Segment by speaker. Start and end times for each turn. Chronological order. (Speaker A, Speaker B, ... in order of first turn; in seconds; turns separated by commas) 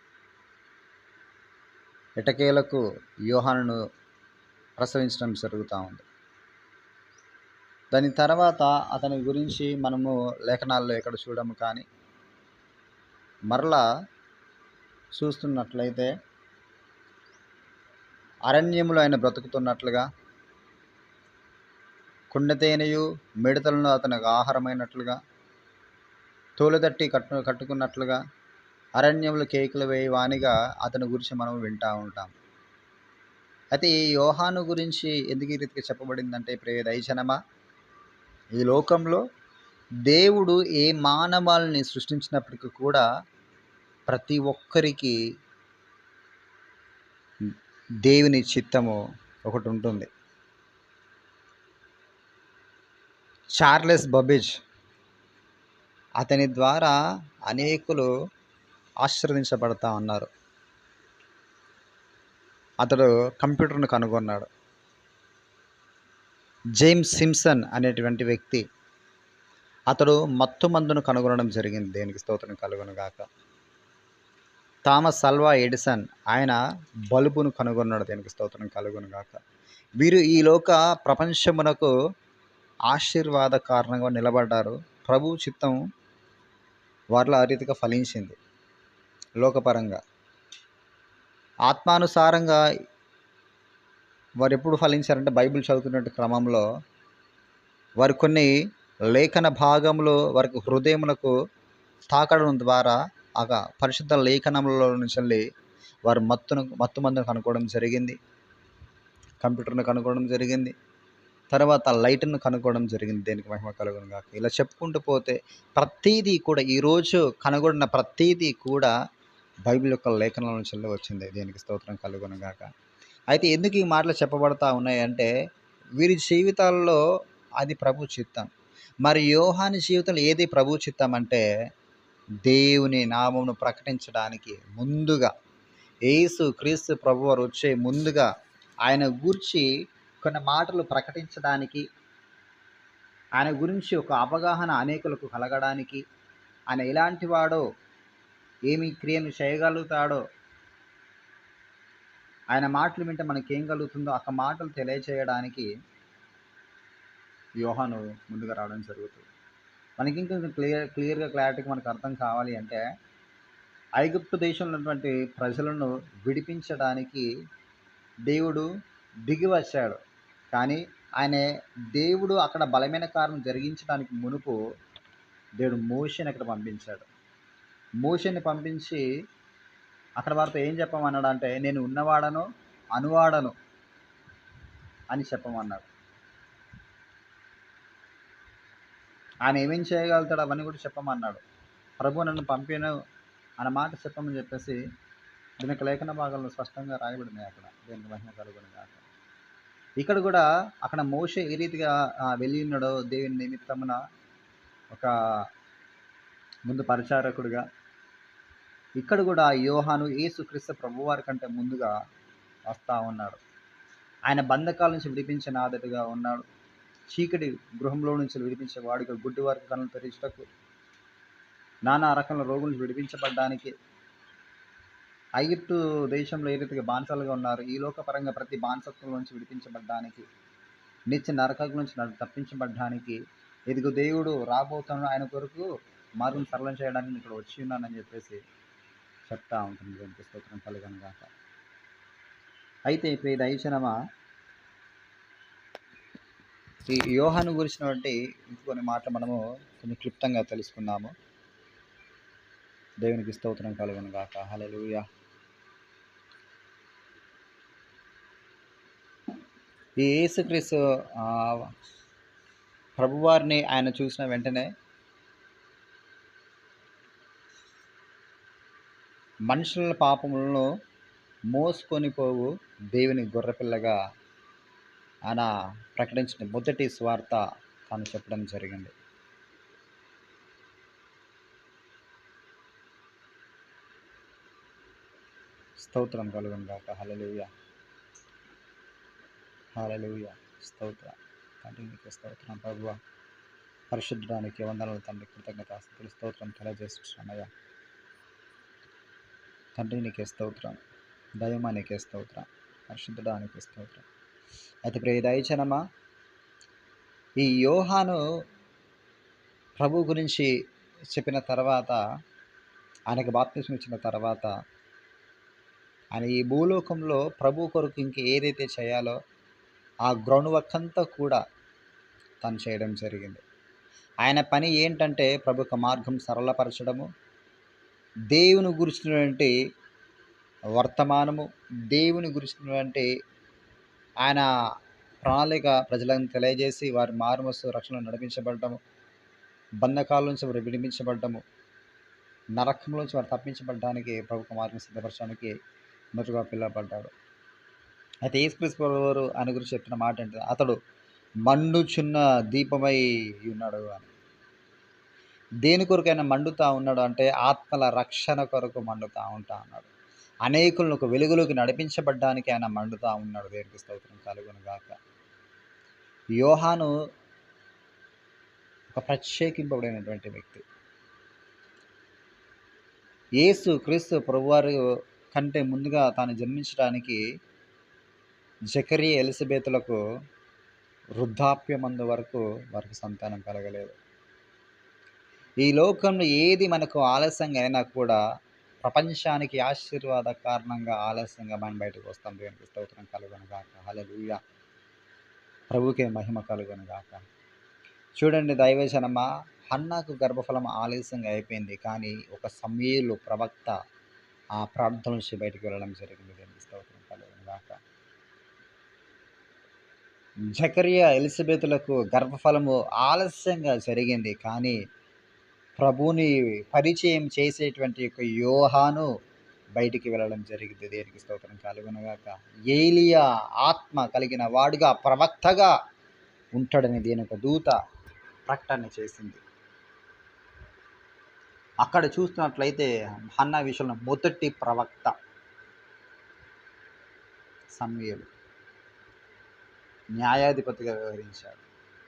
Speaker A: 2.2-3.8, Speaker A: 4.8-6.0, Speaker A: 7.9-11.8, Speaker A: 13.5-13.8, Speaker A: 15.1-16.1, Speaker A: 18.5-20.1, Speaker A: 22.3-25.2, Speaker A: 26.6-28.2, Speaker A: 29.0-32.3, Speaker A: 33.7-37.4, Speaker A: 38.6-39.2, Speaker A: 40.0-43.0, Speaker A: 44.1-45.1, Speaker A: 48.0-50.1, Speaker A: 53.6-54.5, Speaker A: 56.2-56.9, Speaker A: 57.5-58.1, Speaker A: 59.0-60.3, Speaker A: 62.8-64.5, Speaker A: 66.8-68.6, Speaker A: 69.9-73.2, Speaker A: 74.8-76.6, Speaker A: 77.1-79.4, Speaker A: 80.0-81.9, Speaker A: 82.9-85.8, Speaker A: 87.1-88.3, Speaker A: 89.4-90.0, Speaker A: 91.7-92.6, Speaker A: 94.4-96.7, Speaker A: 98.0-98.5, Speaker A: 99.1-101.3, Speaker A: 102.1-105.4, Speaker A: 106.0-108.2, Speaker A: 109.4-110.7, Speaker A: 111.5-118.9, Speaker A: 119.6-122.7, Speaker A: 123.3-125.3, Speaker A: 126.0-127.0, Speaker A: 127.6-128.5, Speaker A: 129.0-131.4, Speaker A: 132.4-135.3, Speaker A: 136.1-138.3, Speaker A: 138.8-139.7, Speaker A: 140.2-141.8, Speaker A: 143.4-146.0, Speaker A: 146.7-147.6, Speaker A: 148.7-150.2, Speaker A: 152.5-155.7, Speaker A: 157.6-159.2, Speaker A: 160.0-162.8, Speaker A: 164.0-167.2, Speaker A: 168.3-168.7, Speaker A: 169.3-170.0, Speaker A: 170.5-174.6, Speaker A: 175.6-177.1, Speaker A: 178.0-179.0, Speaker A: 180.2-183.5, Speaker A: 185.1-185.9, Speaker A: 189.4-191.4, Speaker A: 192.0-192.9, Speaker A: 193.6-194.8, Speaker A: 195.6-199.0, Speaker A: 200.0-204.0, Speaker A: 206.7-207.6, Speaker A: 209.0-211.9, Speaker A: 212.7-213.4, Speaker A: 214.3-216.4, Speaker A: 217.1-220.5, Speaker A: 221.8-223.7, Speaker A: 225.4-230.2, Speaker A: 231.1-233.2, Speaker A: 233.7-238.4, Speaker A: 239.3-241.3, Speaker A: 242.9-243.9, Speaker A: 246.9-251.1, Speaker A: 253.0-255.0, Speaker A: 260.0-261.7, Speaker A: 263.0-264.7, Speaker A: 269.5-270.7, Speaker A: 271.5-273.9, Speaker A: 275.3-278.9, Speaker A: 285.8-287.5, Speaker A: 289.7-293.0, Speaker A: 293.9-297.5, Speaker A: 299.7-300.8, Speaker A: 301.4-304.1, Speaker A: 304.9-305.8, Speaker A: 307.4-308.2, Speaker A: 309.8-310.5, Speaker A: 311.1-312.0, Speaker A: 313.1-314.5, Speaker A: 316.1-319.1, Speaker A: 320.0-321.4, Speaker A: 322.4-323.4, Speaker A: 324.2-327.1, Speaker A: 328.3-329.5, Speaker A: 330.7-333.1, Speaker A: 335.2-338.8, Speaker A: 339.8-341.4, Speaker A: 342.6-345.5, Speaker A: 346.1-347.1, Speaker A: 348.2-350.8, Speaker A: 351.4-354.1, Speaker A: 355.6-359.9, Speaker A: 360.4-365.0, Speaker A: 366.4-366.9, Speaker A: 368.9-370.6, Speaker A: 373.4-374.8, Speaker A: 375.3-377.2, Speaker A: 378.7-380.0, Speaker A: 381.2-383.9, Speaker A: 385.6-388.2, Speaker A: 388.8-394.4, Speaker A: 395.7-397.2, Speaker A: 398.2-403.7, Speaker A: 404.6-407.8, Speaker A: 410.5-414.8, Speaker A: 415.8-419.1, Speaker A: 419.8-425.7, Speaker A: 426.5-427.8, Speaker A: 428.5-429.4, Speaker A: 431.8-435.1, Speaker A: 437.8-438.3, Speaker A: 440.2-441.6